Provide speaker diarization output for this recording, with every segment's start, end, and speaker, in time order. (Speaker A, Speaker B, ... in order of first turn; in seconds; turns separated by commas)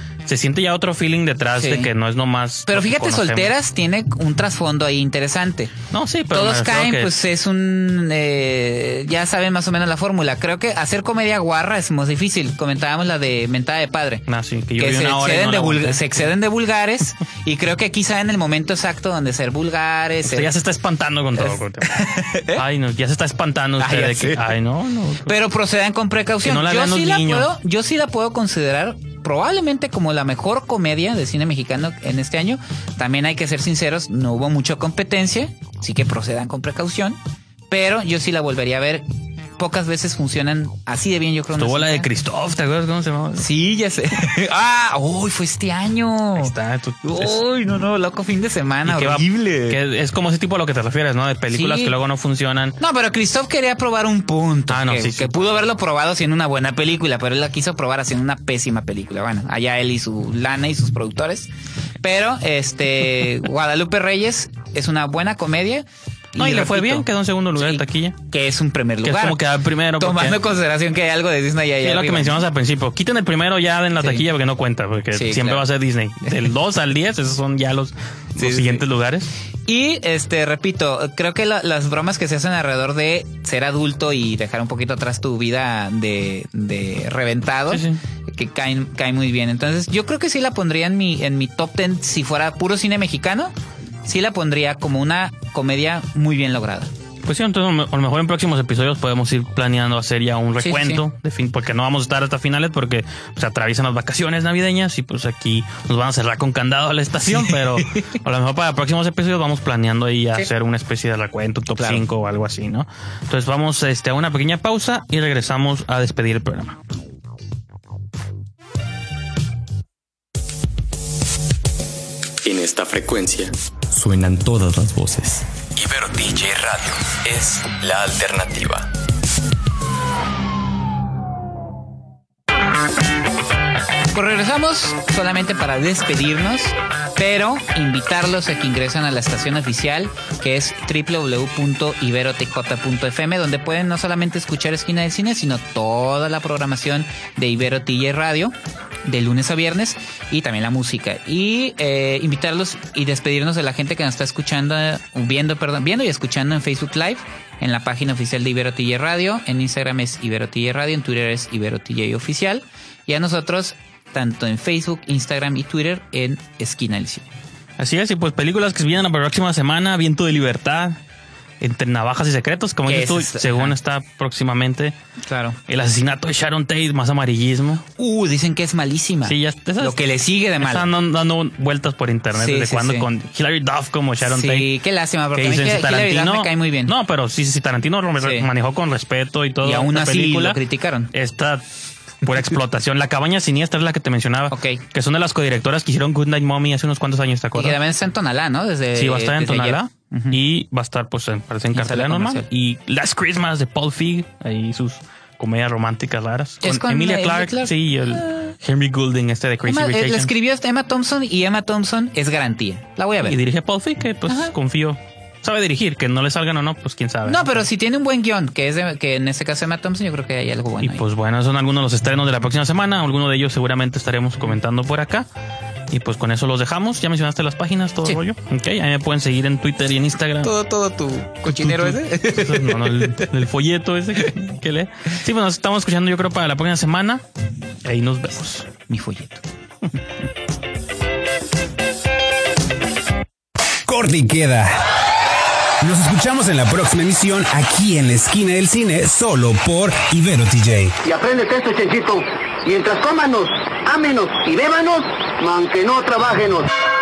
Speaker A: 0.2-3.5, Speaker B: 1.6-1.9, Speaker B: 2.7-5.7, Speaker A: 5.9-7.1, Speaker B: 6.3-14.2, Speaker A: 14.3-16.2, Speaker B: 14.8-20.5, Speaker A: 20.2-25.3, Speaker B: 21.4-22.6, Speaker B: 23.8-24.6, Speaker B: 25.2-37.2, Speaker A: 26.4-27.5, Speaker B: 37.7-39.0, Speaker B: 39.6-42.1, Speaker A: 41.5-43.4, Speaker B: 43.4-46.5, Speaker A: 46.4-47.4, Speaker B: 47.0-49.8, Speaker A: 48.9-52.8, Speaker B: 51.5-51.9, Speaker B: 52.8-61.5, Speaker A: 54.7-55.3, Speaker B: 62.0-69.4, Speaker A: 66.4-68.2, Speaker A: 69.0-70.4, Speaker B: 70.0-72.4, Speaker A: 71.8-79.3, Speaker B: 75.1-75.6, Speaker B: 78.4-78.8, Speaker B: 79.7-96.9, Speaker A: 87.7-88.0, Speaker A: 97.2-116.8, Speaker B: 100.6-101.0, Speaker B: 107.5-108.0, Speaker B: 111.8-112.0, Speaker C: 122.4-128.9, Speaker B: 134.1-148.5, Speaker B: 149.0-167.3, Speaker A: 167.8-171.0, Speaker A: 171.6-174.9, Speaker B: 172.8-173.7, Speaker B: 175.3-175.6, Speaker A: 175.7-177.8, Speaker B: 177.9-180.9, Speaker A: 179.2-180.0, Speaker A: 180.6-184.7, Speaker B: 182.3-183.1, Speaker B: 184.2-186.9, Speaker A: 185.3-190.6, Speaker B: 188.2-188.5, Speaker B: 189.6-191.1, Speaker A: 191.1-191.6, Speaker A: 192.2-197.8, Speaker B: 194.5-194.8, Speaker B: 197.5-200.4, Speaker A: 198.9-210.3, Speaker B: 201.7-202.5, Speaker B: 206.6-208.5, Speaker B: 209.7-213.4, Speaker A: 213.2-217.5, Speaker B: 214.3-214.5, Speaker B: 217.2-221.0, Speaker A: 220.8-225.3, Speaker A: 225.9-230.5, Speaker B: 230.4-233.3, Speaker A: 231.5-237.2, Speaker A: 237.8-238.7, Speaker B: 238.9-239.4, Speaker D: 243.8-244.8, Speaker D: 245.8-250.9, Speaker E: 251.0-256.7